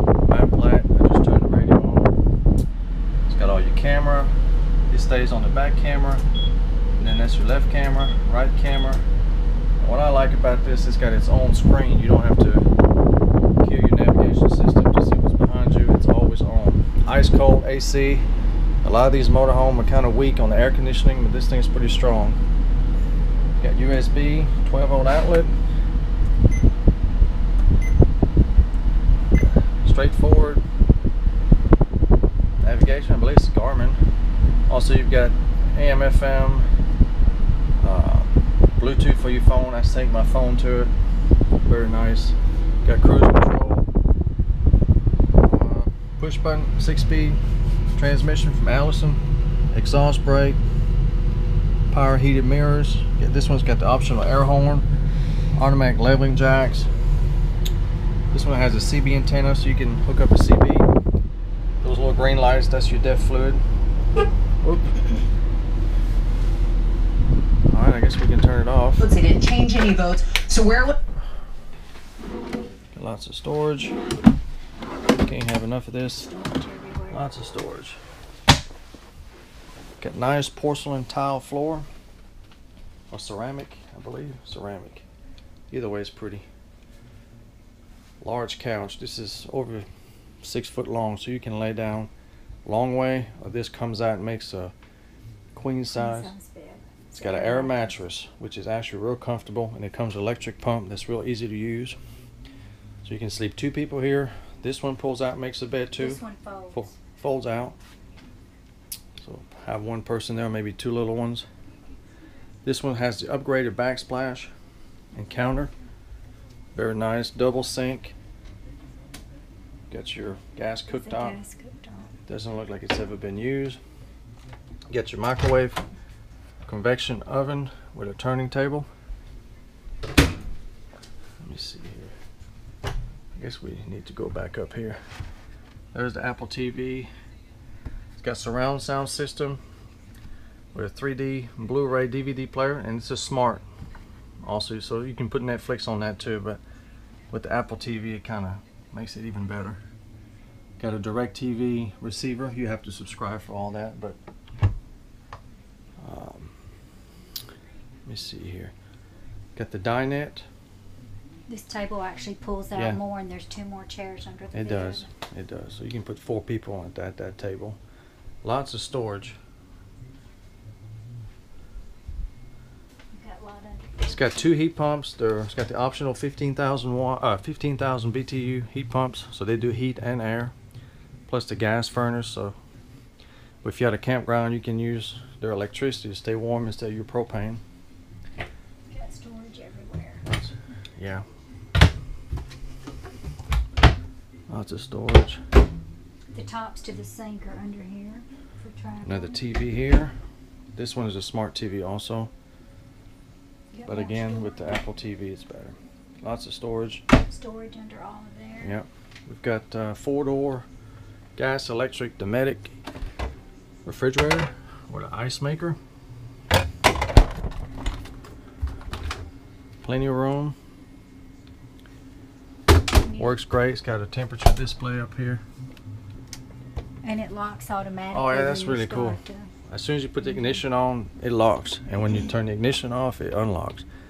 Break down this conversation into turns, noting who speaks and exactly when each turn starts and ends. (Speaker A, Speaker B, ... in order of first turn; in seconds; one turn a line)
Speaker A: 0.2-2.1
Speaker A: 3.2-4.3
Speaker A: 4.9-6.2
Speaker A: 6.9-9.0
Speaker A: 9.8-12.7
Speaker A: 13.6-18.2
Speaker A: 18.8-22.4
Speaker A: 23.6-25.5
Speaker A: 29.3-30.6
Speaker A: 32.6-34.0
Speaker A: 34.7-36.7
Speaker A: 37.8-40.9
Speaker A: 41.6-43.9
Speaker A: 45.4-47.4
Speaker A: 47.9-50.6
Speaker A: 51.9-54.9
Speaker A: 55.5-56.9
Speaker A: 58.3-60.9
Speaker A: 61.8-63.6
Speaker A: 64.6-65.0
Speaker A: 67.7-69.0
Speaker B: 69.0-71.0
Speaker A: 72.9-74.0
Speaker A: 75.2-76.3
Speaker C: 76.2-77.2
Speaker A: 77.1-78.0
Speaker A: 80.0-81.8
Speaker A: 83.1-85.0
Speaker A: 85.7-86.5
Speaker A: 88.2-89.9
Speaker A: 90.4-92.1
Speaker A: 92.7-94.7
Speaker A: 95.5-96.3
Speaker C: 95.9-97.9
Speaker A: 97.1-102.0
Speaker A: 103.0-107.8
Speaker C: 106.0-106.9
Speaker A: 109.2-111.5
Speaker A: 112.6-114.5
Speaker A: 115.1-115.7
Speaker A: 116.7-118.1
Speaker A: 119.9-121.4
Speaker C: 120.9-122.1
Speaker A: 122.3-123.8
Speaker A: 124.9-125.8
Speaker A: 126.6-128.9
Speaker A: 131.4-132.1
Speaker A: 133.3-135.0
Speaker A: 135.9-137.1
Speaker A: 138.2-139.6
Speaker A: 140.7-143.6
Speaker A: 144.4-146.6
Speaker A: 147.3-149.8
Speaker A: 150.8-154.2
Speaker A: 156.0-156.5
Speaker A: 158.1-158.7
Speaker A: 159.6-160.5
Speaker C: 161.5-165.1
Speaker A: 162.7-163.0
Speaker A: 164.5-167.8
Speaker A: 168.4-169.4
Speaker C: 173.1-174.4
Speaker A: 174.0-180.5
Speaker A: 181.3-182.6
Speaker A: 183.6-187.6
Speaker C: 188.9-190.2
Speaker A: 190.2-191.2
Speaker A: 194.5-195.4
Speaker C: 196.3-199.4
Speaker A: 199.0-200.1
Speaker A: 200.7-202.3
Speaker C: 203.7-204.7
Speaker A: 203.8-207.0
Speaker C: 207.3-208.8
Speaker A: 208.6-210.7
Speaker A: 211.3-212.8
Speaker A: 213.8-215.8
Speaker A: 219.8-220.5
Speaker A: 223.1-225.4
Speaker C: 227.0-229.5
Speaker A: 228.1-233.8